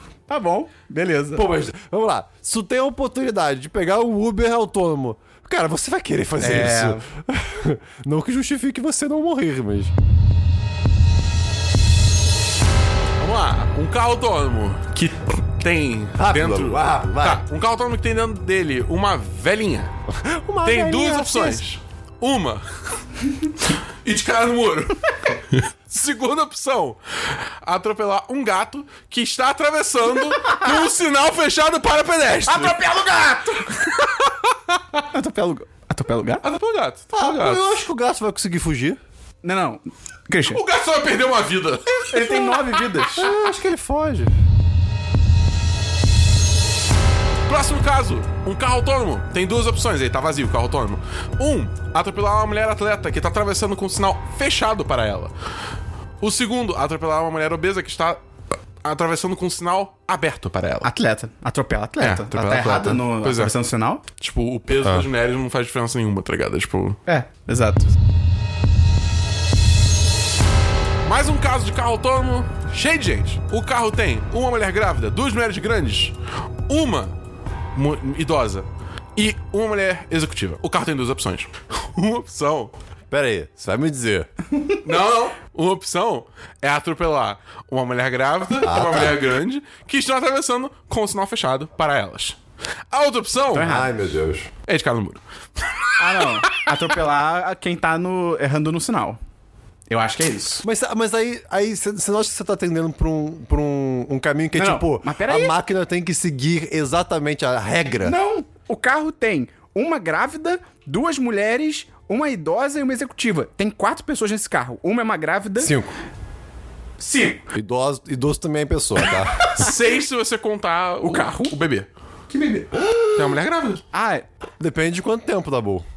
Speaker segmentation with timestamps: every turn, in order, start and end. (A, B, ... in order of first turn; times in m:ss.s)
0:00.3-0:01.4 A
0:01.3-0:09.9 B
0:06.4-0:07.0 A
0:13.2-0:19.9 C
0:16.2-0:17.4 B
0:20.1-0:21.6 B
0:20.6-0:22.7 C
0:23.6-0:32.8 C
0:30.4-0:30.6 A
0:32.5-0:34.1 A
0:34.0-0:34.4 C
0:35.1-0:36.4 A
0:36.4-0:37.6 C
0:37.1-0:39.0 B
0:39.4-0:40.6 A
0:40.5-0:43.0 C
0:42.1-0:43.3 A
0:43.1-0:44.3 B
0:47.5-0:55.3 C
0:56.2-0:58.2 C
0:58.8-1:00.9 C
1:00.8-1:04.0 A
1:02.0-1:03.5 C
1:04.1-1:07.0 C
1:07.1-1:07.9 A
1:11.0-1:16.1 C
1:16.7-1:17.1 C
1:17.7-1:22.7 C
1:23.1-1:24.3 B
1:24.8-1:32.4 C
1:28.6-1:29.2 B
1:32.9-1:33.8 C
1:33.5-1:33.9 A
1:33.5-1:34.5 B
1:34.6-1:36.6 C
1:36.0-1:39.2 A
1:39.9-1:40.6 A
1:40.6-1:48.2 B
1:44.5-1:45.5 A
1:48.0-1:55.7 A
1:55.6-1:55.9 B
1:57.0-1:57.4 A
1:57.5-1:59.6 B
1:59.4-1:59.7 A
1:59.5-2:01.9 C
2:01.0-2:01.6 A
2:02.3-2:02.7 A
2:02.8-2:03.3 B
2:03.1-2:03.8 C
2:03.9-2:04.2 A
2:04.6-2:05.8 B